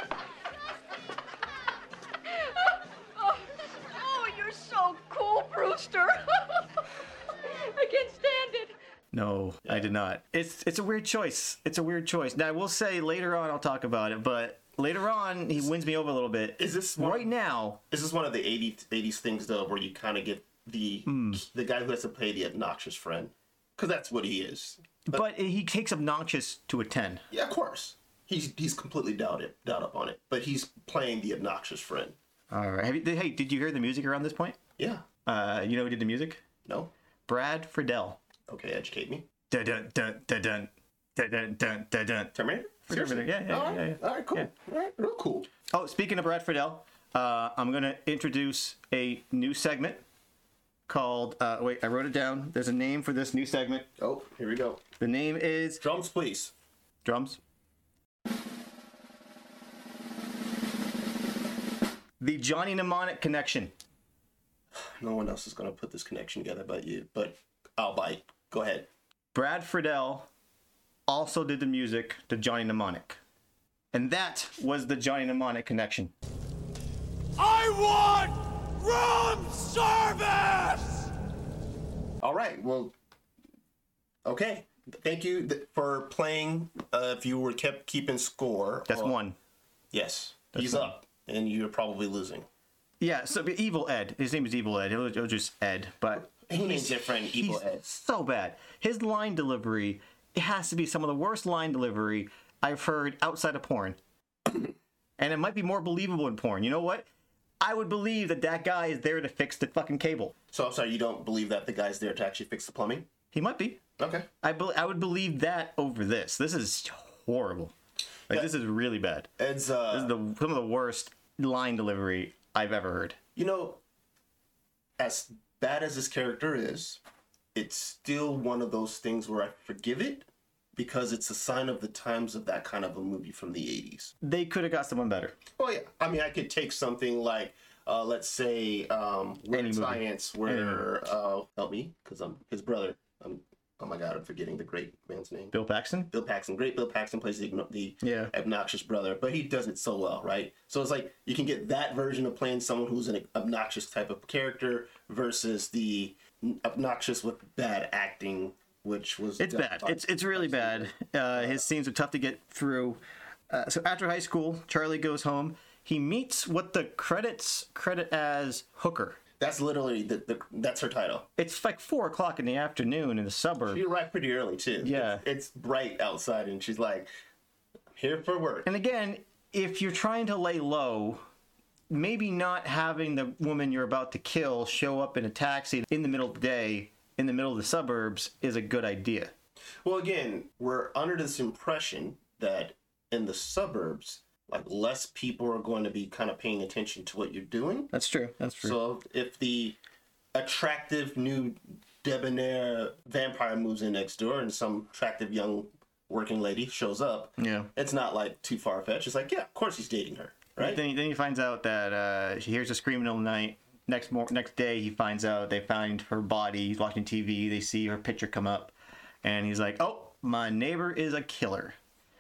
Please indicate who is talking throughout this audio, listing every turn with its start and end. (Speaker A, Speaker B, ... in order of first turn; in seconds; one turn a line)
Speaker A: 2.3-6.7
Speaker A: 7.5-8.7
Speaker B: 9.1-17.8
Speaker C: 16.6-17.3
Speaker C: 17.9-25.2
Speaker B: 21.1-21.4
Speaker B: 25.1-27.2
Speaker C: 27.3-32.1
Speaker B: 32.5-34.6
Speaker C: 34.8-35.0
Speaker B: 35.2-36.4
Speaker C: 36.7-36.9
Speaker B: 37.3-38.2
Speaker C: 38.5-39.3
Speaker B: 39.5-42.3
Speaker C: 42.4-45.5
Speaker B: 42.9-44.5
Speaker B: 45.7-50.0
Speaker B: 50.9-53.9
Speaker C: 54.0-54.8
Speaker B: 55.0-55.8
Speaker C: 55.8-56.5
Speaker B: 57.0-57.4
Speaker B: 62.2-63.7
Speaker C: 64.8-68.9
Speaker B: 69.3-70.3
Speaker B: 71.1-73.2
Speaker B: 73.9-76.1
Speaker C: 82.2-82.9
Speaker C: 84.2-89.1
Speaker B: 88.9-89.4
Speaker C: 89.9-92.5
Speaker B: 90.5-90.9
Speaker B: 93.0-104.0
Speaker C: 96.3-97.8
Speaker B: 105.2-107.1
Speaker B: 107.6-110.3
Speaker C: 110.5-113.1
Speaker B: 113.3-113.8
Speaker C: 114.0-114.3
Speaker B: 114.4-117.7
Speaker B: 118.3-119.3
Speaker C: 119.4-120.1
Speaker B: 119.9-123.2
Speaker C: 123.4-123.8
Speaker C: 125.0-127.0
Speaker C: 127.5-134.1
Speaker B: 134.2-135.3
Speaker C: 135.6-145.5
Speaker B: 139.5-140.9
Speaker B: 145.5-146.1
Speaker C: 146.1-161.6
Speaker B: 148.0-148.3
Speaker B: 159.4-169.2
Speaker C: 169.4-171.3
Speaker B: 171.4-173.8
Speaker C: 173.7-177.1
Speaker B: 174.8-175.2
Speaker C: 177.9-178.7
Speaker B: 178.7-181.2
Speaker B: 181.9-189.3
Speaker C: 189.8-197.9
Speaker B: 197.9-198.8
Speaker C: 198.6-199.8
Speaker C: 200.3-210.8
Speaker B: 207.4-207.7
Speaker B: 210.6-221.8